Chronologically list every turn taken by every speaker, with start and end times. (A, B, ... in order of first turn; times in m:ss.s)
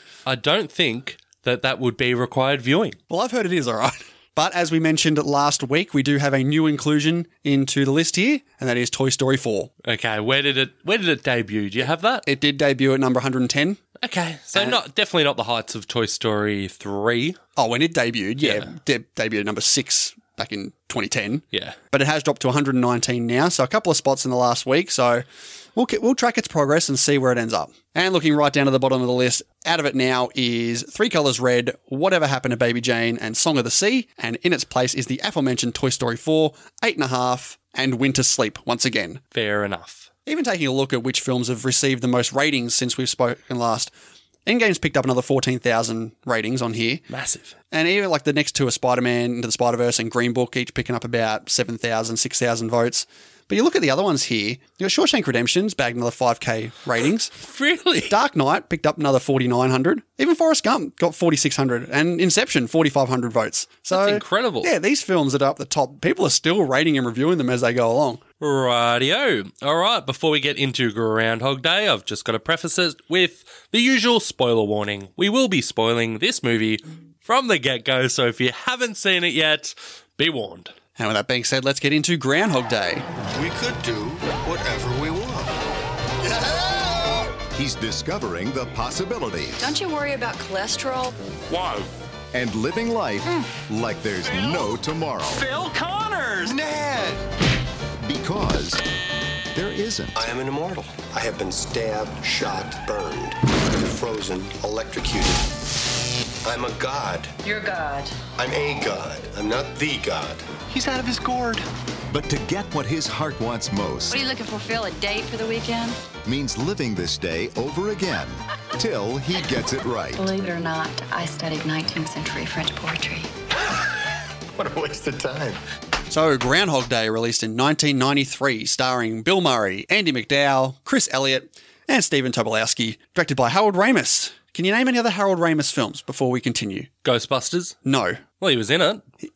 0:00.3-0:03.0 A
0:03.1-0:09.7 B
0:09.8-0:12.2 A
0:12.2-0:13.8 B
0:14.0-0:17.4 A
0:14.5-0:14.8 B
0:17.6-0:39.2 B
0:18.4-0:18.7 A
0:21.5-0:21.8 A
0:39.3-0:40.1 A
0:40.3-0:43.9 B
0:44.5-0:47.0 B
0:47.1-0:47.5 A
0:47.7-0:57.3 B
0:57.4-0:58.1 A
0:58.1-1:08.2 B
1:03.9-1:04.7 A
1:08.4-1:20.7 A
1:21.0-1:23.1 B
1:23.3-1:25.5 C
1:26.5-1:27.0 C
1:27.5-1:29.7 D
1:29.6-1:31.2 E
1:31.5-1:31.9 F
1:32.3-1:35.4 D
1:35.3-1:35.7 C
1:35.5-1:36.5 F
1:36.4-1:37.2 C
1:38.0-1:38.8 D
1:39.5-1:40.2 D
1:40.2-1:45.5 C
1:46.4-1:47.3 C
1:47.4-1:48.2 E
1:48.4-1:50.4 C
1:50.7-1:51.7 F
1:52.1-1:54.2 D
1:54.1-1:56.0 E
1:56.2-2:00.3 D
2:00.2-2:03.3 E
2:04.6-2:05.6 C
2:06.1-2:16.9 B
2:17.0-2:17.8 A
2:17.8-2:18.2 B
2:18.4-2:19.0 A